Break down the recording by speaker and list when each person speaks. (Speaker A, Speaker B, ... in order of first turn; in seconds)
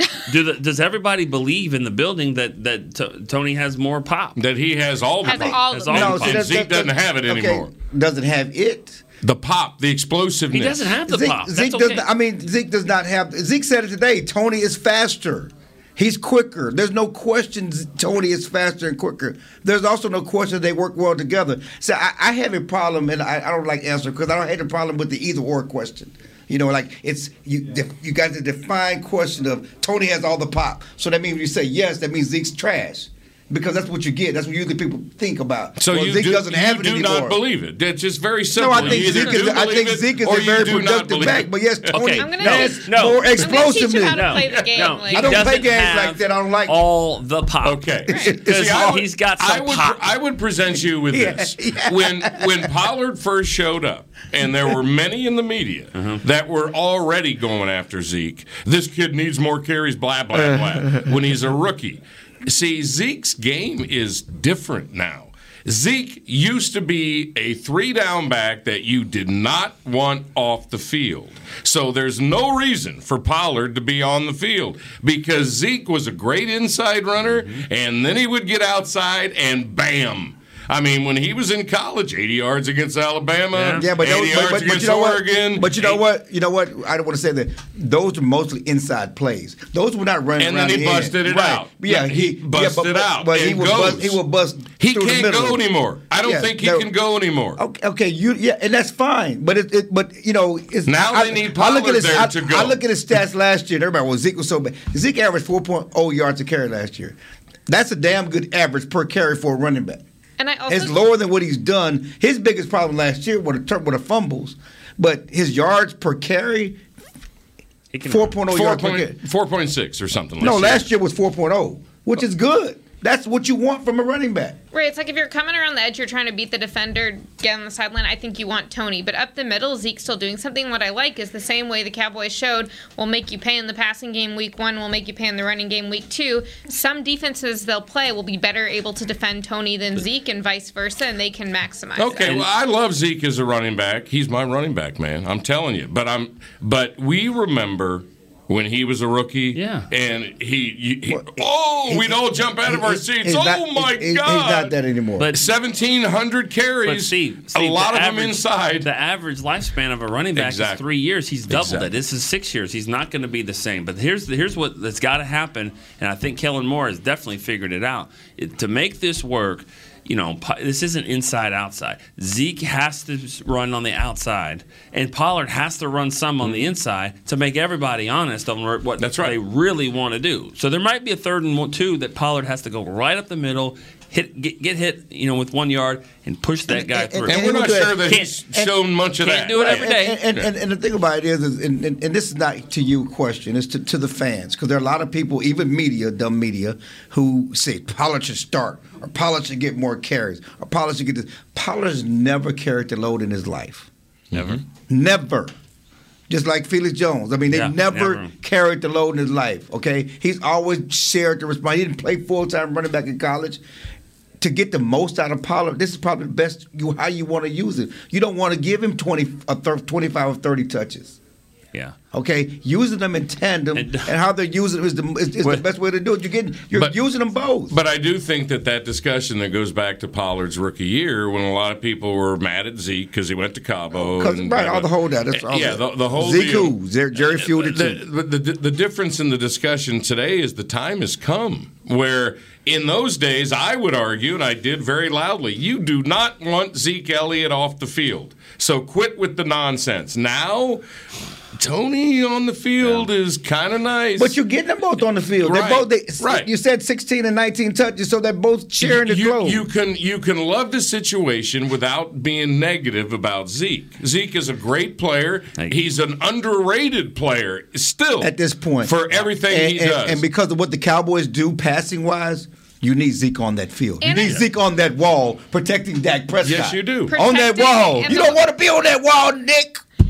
Speaker A: 0.3-4.4, 5.3-6.4, 10.5-12.1, 38.8-39.4, 41.9-50.0, 55.9-56.2, 77.2-77.6, 83.5-83.8, 117.9-118.4, 149.5-149.9, 155.2-155.5, 156.8-187.4, 188.0-188.3, 189.2-190.2, 204.3-204.6, 207.5-208.3, 223.7-224.1
Speaker B: 4.3-7.7, 9.2-10.9, 35.8-42.0, 47.6-86.0, 90.4-94.2, 94.8-97.6, 100.8-102.8, 118.5-120.8, 141.9-154.7, 155.3-158.9, 160.3-160.8, 161.5-161.9, 176.4-176.7, 179.0-179.4, 187.3-190.5, 204.3-204.6, 227.7-250.8, 251.6-254.3, 255.4-256.5, 258.8-270.2, 276.4-277.1
Speaker C: 5.2-6.1, 42.2-45.5, 48.1-48.4, 110.4-111.0, 124.7-142.4, 274.0-274.4, 277.1-278.4
Speaker D: 5.9-9.0, 11.1-37.4, 38.5-44.5, 45.1-46.8, 48.1-48.9, 51.1-52.6, 83.7-95.6, 96.2-96.9, 97.6-107.2, 107.7-110.0, 110.7-116.8, 118.1-119.2, 120.4-124.6, 151.1-155.3, 186.7-188.7, 189.5-203.9, 204.9-205.5, 206.3-213.6, 214.4-221.2, 222.1-227.8, 233.9-238.0, 254.2-259.6, 268.2-279.8